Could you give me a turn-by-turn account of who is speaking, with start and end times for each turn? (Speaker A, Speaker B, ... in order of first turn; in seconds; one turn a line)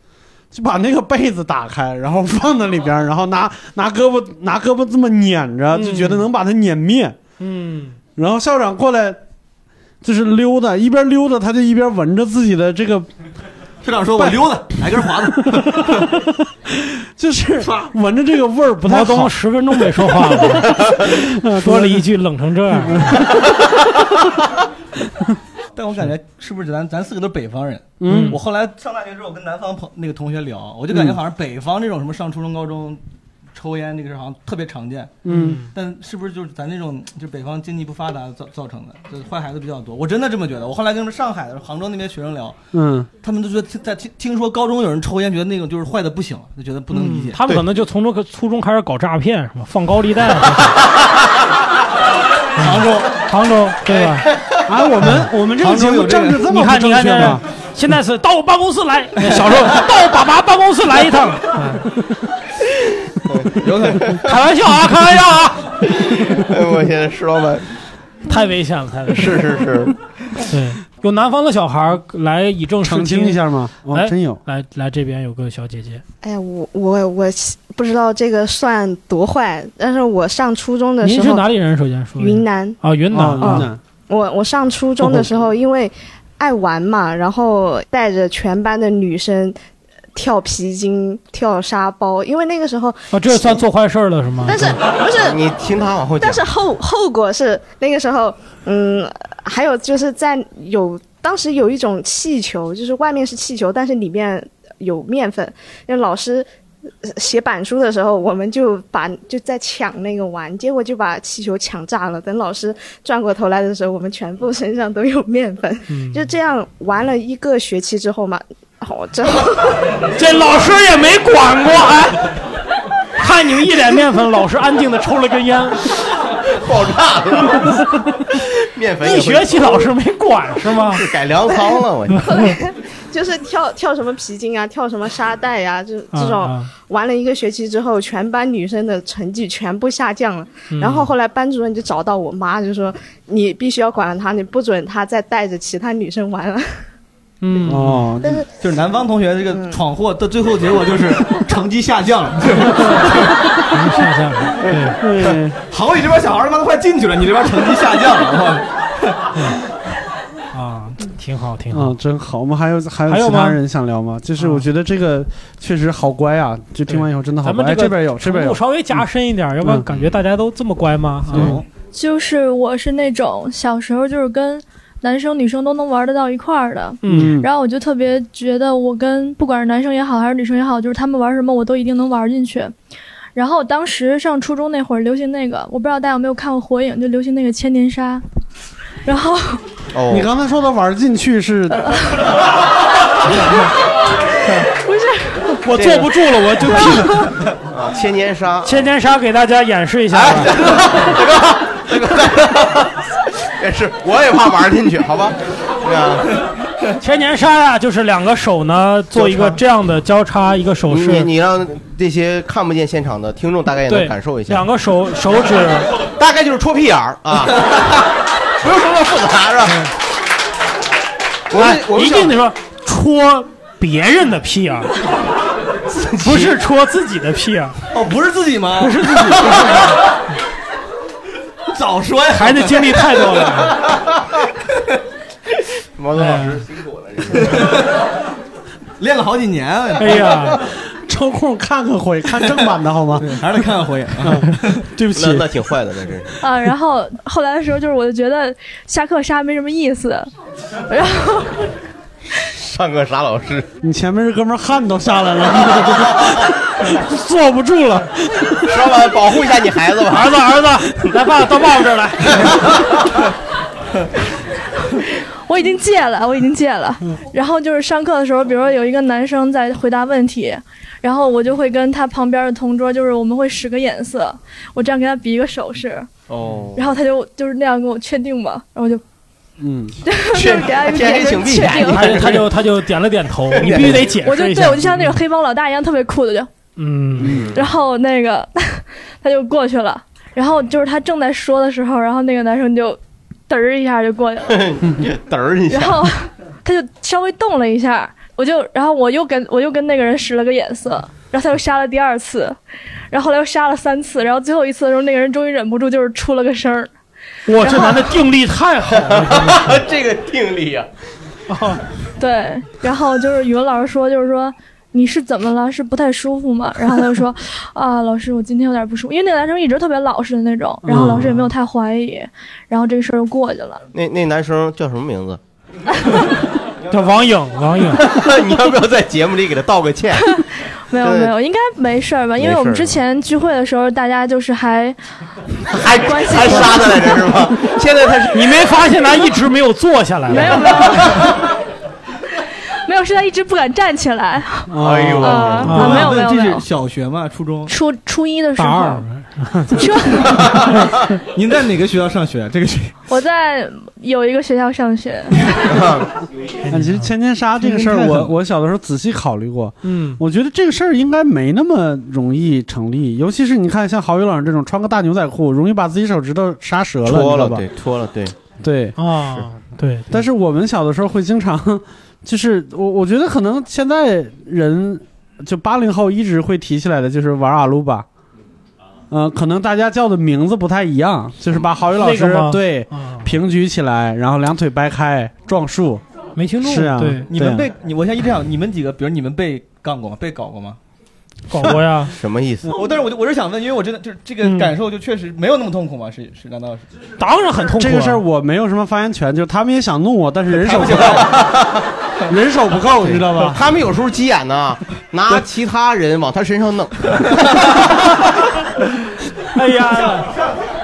Speaker A: 0.5-7.2
Speaker B: 5.7-6.2
Speaker B: 7.4-8.0
Speaker A: 8.2-9.2
Speaker A: 10.0-13.1
Speaker C: 13.8-16.1
Speaker A: 14.2-14.7
Speaker A: 15.4-16.2
Speaker A: 16.8-19.3
Speaker C: 17.6-17.9
Speaker B: 18.9-23.2
Speaker A: 19.9-22.1
Speaker A: 22.8-23.5
Speaker C: 25.8-33.0
Speaker A: 28.0-28.4
Speaker B: 28.1-28.4
Speaker C: 33.5-42.6
Speaker A: 35.2-35.6
Speaker B: 35.3-35.7
Speaker A: 42.7-43.1
Speaker C: 43.2-47.4
Speaker B: 46.9-50.7
Speaker C: 52.6-53.1
Speaker B: 52.6-54.3
Speaker A: 54.6-57.4
Speaker C: 55.6-56.4
Speaker B: 56.5-61.9
Speaker D: 63.1-64.1
Speaker C: 63.6-64.2
Speaker B: 64.1-65.8
Speaker D: 65.9-67.7
Speaker B: 68.3-69.4
Speaker D: 69.1-69.9
Speaker B: 70.5-76.0
Speaker A: 72.8-74.4
Speaker E: 76.2-81.5
Speaker B: 81.0-83.7
Speaker E: 82.2-82.8
Speaker A: 83.1-83.8
Speaker E: 83.4-89.6
Speaker E: 90.1-93.6
Speaker B: 93.1-94.8
Speaker E: 94.5-95.4
Speaker D: 95.2-96.4
Speaker E: 96.2-106.5
Speaker E: 107.0-119.8
Speaker B: 115.9-116.2
Speaker B: 120.1-122.3
Speaker B: 123.2-125.9
Speaker D: 126.5-127.8
Speaker D: 128.4-129.9
Speaker B: 129.0-131.0
Speaker D: 130.7-132.3
Speaker B: 132.2-132.5
Speaker E: 132.3-146.7
Speaker B: 136.1-136.7
Speaker B: 140.7-141.1
Speaker B: 147.4-148.1
Speaker A: 147.7-148.4
Speaker E: 148.2-148.4
Speaker C: 148.6-153.3
Speaker E: 149.5-149.8
Speaker B: 153.7-155.0
Speaker A: 155.0-155.6
Speaker C: 155.2-159.2
Speaker B: 160.5-162.0
Speaker A: 161.7-169.0
Speaker B: 163.1-163.6
Speaker B: 164.4-164.7
Speaker B: 166.9-171.6
Speaker A: 171.3-171.6
Speaker C: 171.3-171.6
Speaker F: 171.9-182.7
Speaker B: 177.0-177.4
Speaker A: 177.1-177.5
Speaker F: 183.3-188.2
Speaker F: 189.0-189.6
Speaker D: 189.9-190.3
Speaker A: 190.1-191.9
Speaker F: 194.7-195.6
Speaker B: 195.7-197.3
Speaker D: 195.7-196.1
Speaker A: 195.8-196.9
Speaker D: 197.6-198.9
Speaker B: 198.6-201.0
Speaker D: 200.1-206.4
Speaker B: 207.0-211.3
Speaker D: 209.1-209.6
Speaker D: 210.9-214.7
Speaker B: 213.9-215.9
Speaker D: 216.2-218.0
Speaker D: 218.6-219.8
Speaker D: 221.5-222.4
Speaker B: 221.5-224.9
Speaker D: 225.8-226.6
Speaker B: 226.2-227.8
Speaker C: 227.9-229.9
Speaker B: 228.8-230.0
Speaker C: 231.7-233.2
Speaker B: 232.3-233.8
Speaker D: 236.0-237.8
Speaker B: 236.2-236.6
Speaker C: 237.4-238.0
Speaker C: 239.0-240.6
Speaker B: 240.0-240.6
Speaker A: 240.7-243.4
Speaker C: 243.2-244.8
Speaker A: 244.2-245.4
Speaker D: 245.1-246.4
Speaker F: 246.4-250.3
Speaker F: 250.9-251.7
Speaker D: 252.4-253.7
Speaker A: 253.8-258.7
Speaker D: 255.7-256.3
Speaker D: 258.6-260.6
Speaker B: 260.1-262.6
Speaker D: 262.4-263.2
Speaker F: 264.9-276.1
Speaker D: 276.3-276.9
Speaker F: 276.7-279.0
Speaker A: 279.6-279.9
Speaker F: 280.0-282.2
Speaker D: 280.3-282.6
Speaker B: 281.7-285.1
Speaker D: 283.5-284.1
Speaker F: 283.8-286.5
Speaker B: 286.8-287.4
Speaker A: 287.2-287.6
Speaker D: 287.2-287.6
Speaker F: 287.5-294.7
Speaker D: 294.5-296.1
Speaker F: 295.7-302.6
Speaker F: 303.1-306.9
Speaker B: 307.5-309.8
Speaker F: 307.6-308.1
Speaker D: 308.9-310.9
Speaker B: 311.5-311.8
Speaker F: 312.2-323.8
Speaker B: 320.9-321.5
Speaker D: 320.9-321.2
Speaker D: 323.9-325.4
Speaker B: 326.9-328.1
Speaker D: 328.0-330.3
Speaker F: 330.2-335.0
Speaker D: 331.0-331.3
Speaker D: 332.4-333.0
Speaker D: 335.7-338.6
Speaker F: 335.9-337.1
Speaker B: 338.3-340.7
Speaker F: 340.3-341.4
Speaker F: 342.9-346.6
Speaker A: 344.7-345.5
Speaker D: 344.8-345.9
Speaker C: 345.6-347.7
Speaker B: 345.6-346.1
Speaker F: 347.7-349.0
Speaker B: 348.6-349.8
Speaker F: 349.7-350.7
Speaker D: 350.2-350.9
Speaker C: 351.3-352.9
Speaker F: 353.1-355.5
Speaker D: 355.7-356.1
Speaker B: 356.6-358.3
Speaker A: 356.7-367.6
Speaker B: 359.8-360.2
Speaker D: 367.0-368.4
Speaker A: 368.6-369.0
Speaker B: 369.0-370.1
Speaker A: 370.1-378.1
Speaker A: 379.1-386.0
Speaker B: 382.0-383.3
Speaker B: 386.4-387.3
Speaker A: 386.6-387.7
Speaker C: 387.3-390.8
Speaker B: 391.5-392.1
Speaker D: 392.1-392.7
Speaker C: 392.7-396.9
Speaker B: 394.4-394.7
Speaker B: 397.2-398.2
Speaker A: 397.6-401.4
Speaker C: 400.5-401.1
Speaker D: 400.9-401.8
Speaker A: 402.3-403.6
Speaker D: 403.0-407.9
Speaker B: 409.5-410.3